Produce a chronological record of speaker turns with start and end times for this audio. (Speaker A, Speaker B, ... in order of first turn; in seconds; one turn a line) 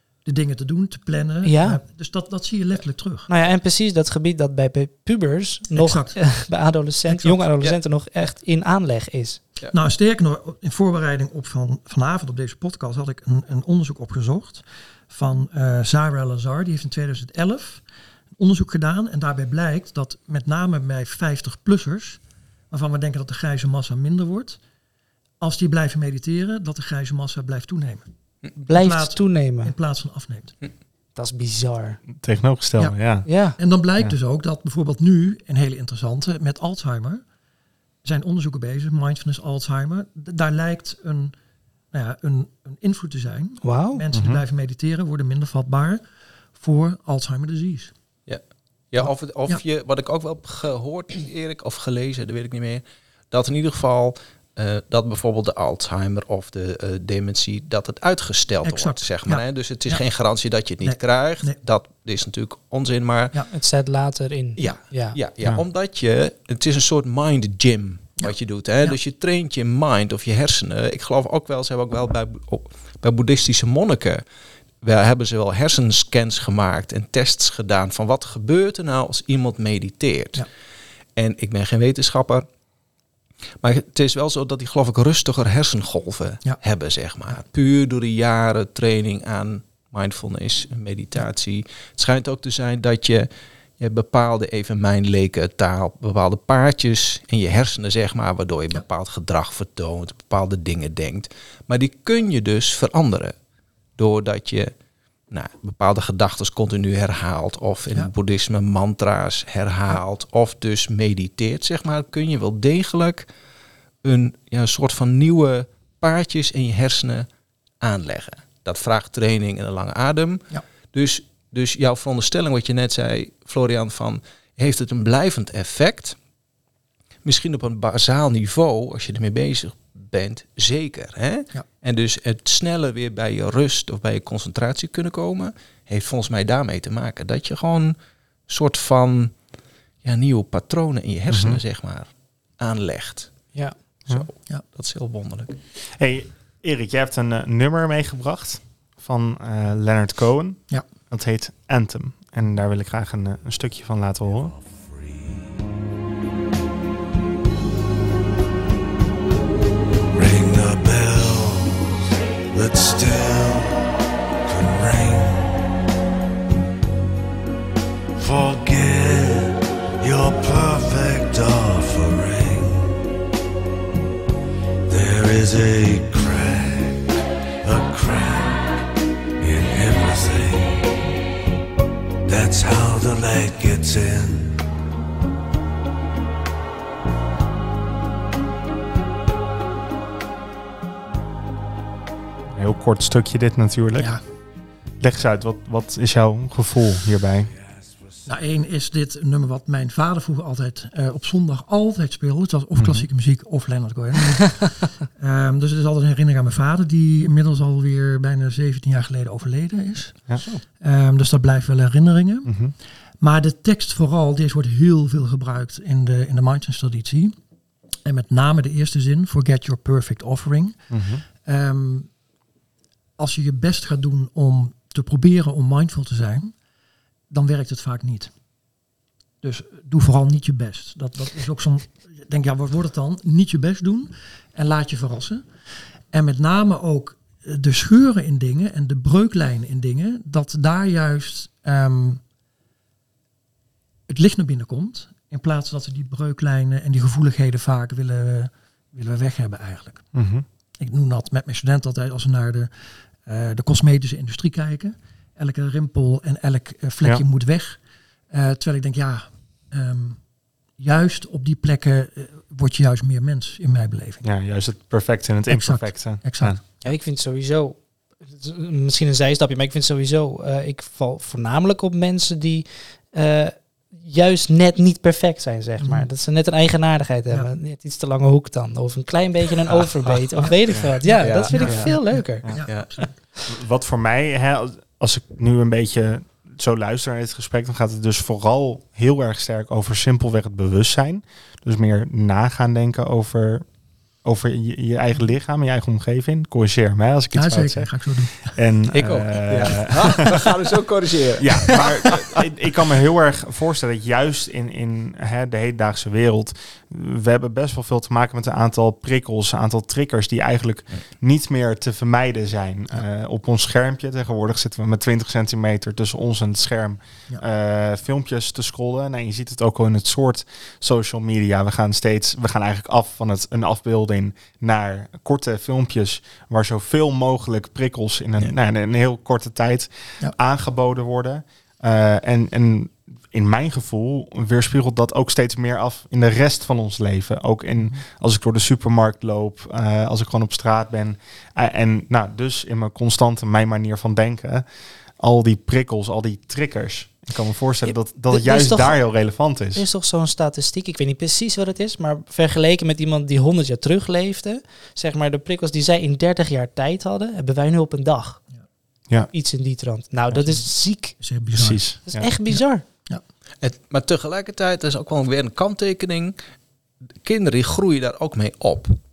Speaker A: 0.2-3.3
Speaker B: 1.4-1.8
Speaker B: 3.3-9.4
Speaker A: 5.7-6.2
Speaker A: 7.1-7.4
Speaker A: 9.7-17.8
Speaker A: 18.4-24.6
Speaker A: 25.4-30.6
Speaker B: 28.6-29.7
Speaker B: 31.1-32.0
Speaker C: 32.1-33.3
Speaker B: 33.2-33.6
Speaker A: 33.6-37.2
Speaker A: 38.0-41.4
Speaker A: 41.9-46.0
Speaker B: 43.6-44.0
Speaker C: 44.1-44.4
Speaker A: 46.5-47.9
Speaker D: 48.3-63.4
Speaker A: 49.0-49.6
Speaker A: 58.6-60.0
Speaker A: 60.8-61.6
Speaker B: 63.5-65.2
Speaker D: 64.6-74.2
Speaker A: 68.2-69.0
Speaker D: 74.8-80.4
Speaker D: 81.2-82.5
Speaker D: 83.6-93.3
Speaker D: 93.8-103.3
Speaker D: 104.0-104.7
Speaker D: 105.3-113.2
Speaker D: 114.0-117.3
Speaker D: 117.8-126.2
Speaker D: 127.2-137.9
Speaker D: 138.5-139.3
Speaker D: 140.0-143.5
Speaker C: 141.3-141.6
Speaker D: 144.1-145.6
Speaker C: 146.0-154.5
Speaker E: 154.5-155.5
Speaker E: 160.1-161.9
Speaker E: 162.5-163.9
Speaker E: 164.4-165.7
Speaker E: 168.2-173.0
Speaker E: 174.9-178.8
Speaker E: 179.4-181.1
Speaker E: 182.2-184.6
Speaker C: 192.5-194.2
Speaker A: 194.0-194.2
Speaker C: 195.0-197.5
Speaker A: 198.2-212.5
Speaker C: 202.8-203.1
Speaker C: 212.4-212.7
Speaker A: 213.2-217.3
Speaker A: 218.0-220.8
Speaker C: 220.9-221.2
Speaker A: 221.4-222.1
Speaker A: 223.2-226.5
Speaker A: 227.3-228.3
Speaker A: 229.4-235.4
Speaker A: 236.1-242.2
Speaker A: 244.1-250.1
Speaker C: 250.1-250.4
Speaker A: 250.8-257.8
Speaker A: 258.3-260.2
Speaker A: 260.8-264.2
Speaker C: 264.2-266.6
Speaker A: 265.5-266.6
Speaker B: 266.8-283.1
Speaker A: 275.8-276.1
Speaker D: 279.7-280.5
Speaker A: 281.0-283.1
Speaker D: 281.2-282.0
Speaker D: 282.7-283.0
Speaker C: 283.5-293.6
Speaker C: 294.2-300.2
Speaker A: 297.3-298.6
Speaker D: 298.9-302.2
Speaker C: 301.4-344.6
Speaker C: 345.2-349.8
Speaker B: 347.9-358.4
Speaker B: 359.3-361.2
Speaker A: 360.4-361.8
Speaker C: 361.5-362.3
Speaker B: 362.1-362.8
Speaker A: 362.5-363.2
Speaker D: 363.6-366.4
Speaker D: 367.2-368.9